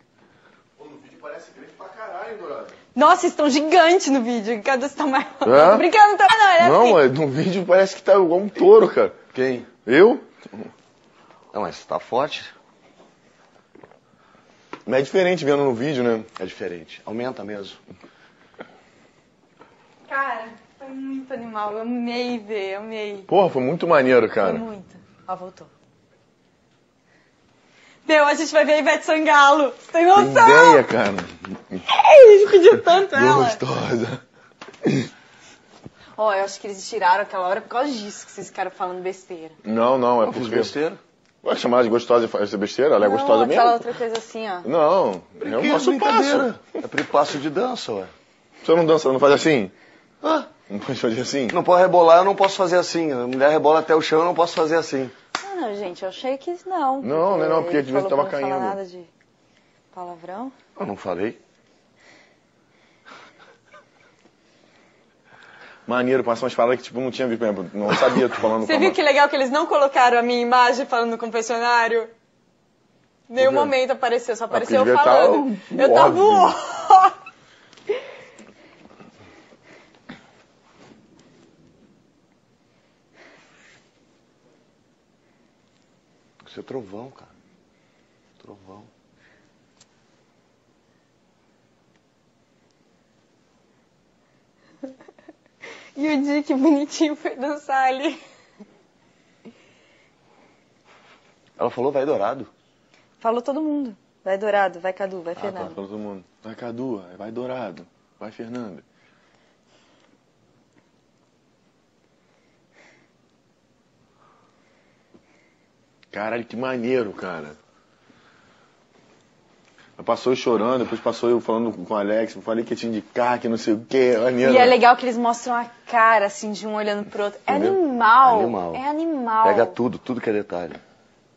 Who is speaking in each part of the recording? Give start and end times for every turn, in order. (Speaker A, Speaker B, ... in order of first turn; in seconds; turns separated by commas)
Speaker A: 0.8-2.7, Speaker B: 3.0-7.0, Speaker A: 5.4-5.9, Speaker A: 6.6-9.2, Speaker C: 9.3-9.7, Speaker A: 9.9-10.6, Speaker C: 11.5-12.5, Speaker A: 14.9-16.3, Speaker C: 16.4-17.8, Speaker B: 20.1-23.3, Speaker A: 23.3-24.6, Speaker B: 24.4-25.7, Speaker B: 28.1-30.8, Speaker A: 30.1-31.8, Speaker B: 31.9-33.6, Speaker A: 32.7-34.2, Speaker B: 36.2-39.6, Speaker A: 39.6-40.7, Speaker C: 40.2-41.0, Speaker A: 41.4-43.8, Speaker B: 43.0-44.7, Speaker A: 44.6-46.5, Speaker C: 45.4-48.1, Speaker A: 48.6-49.7, Speaker C: 50.2-50.5, Speaker A: 50.7-51.6, Speaker C: 51.5-55.1, Speaker B: 55.4-59.1, Speaker A: 57.0-58.8, Speaker B: 59.9-60.5, Speaker C: 60.8-61.4, Speaker A: 65.8-69.0, Speaker B: 68.6-72.1, Speaker B: 73.3-77.1, Speaker A: 73.4-73.7, Speaker A: 74.5-76.6, Speaker C: 86.4-87.3, Speaker C: 88.4-88.9, Speaker B: 96.0-98.2, Speaker C: 101.6-102.5, Speaker B: 103.2-105.8, Speaker C: 105.4-105.7, Speaker A: 105.5-108.8, Speaker A: 116.1-117.6, Speaker A: 120.0-124.8, Speaker B: 124.4-129.8, Speaker C: 127.5-128.8, Speaker C: 129.4-130.8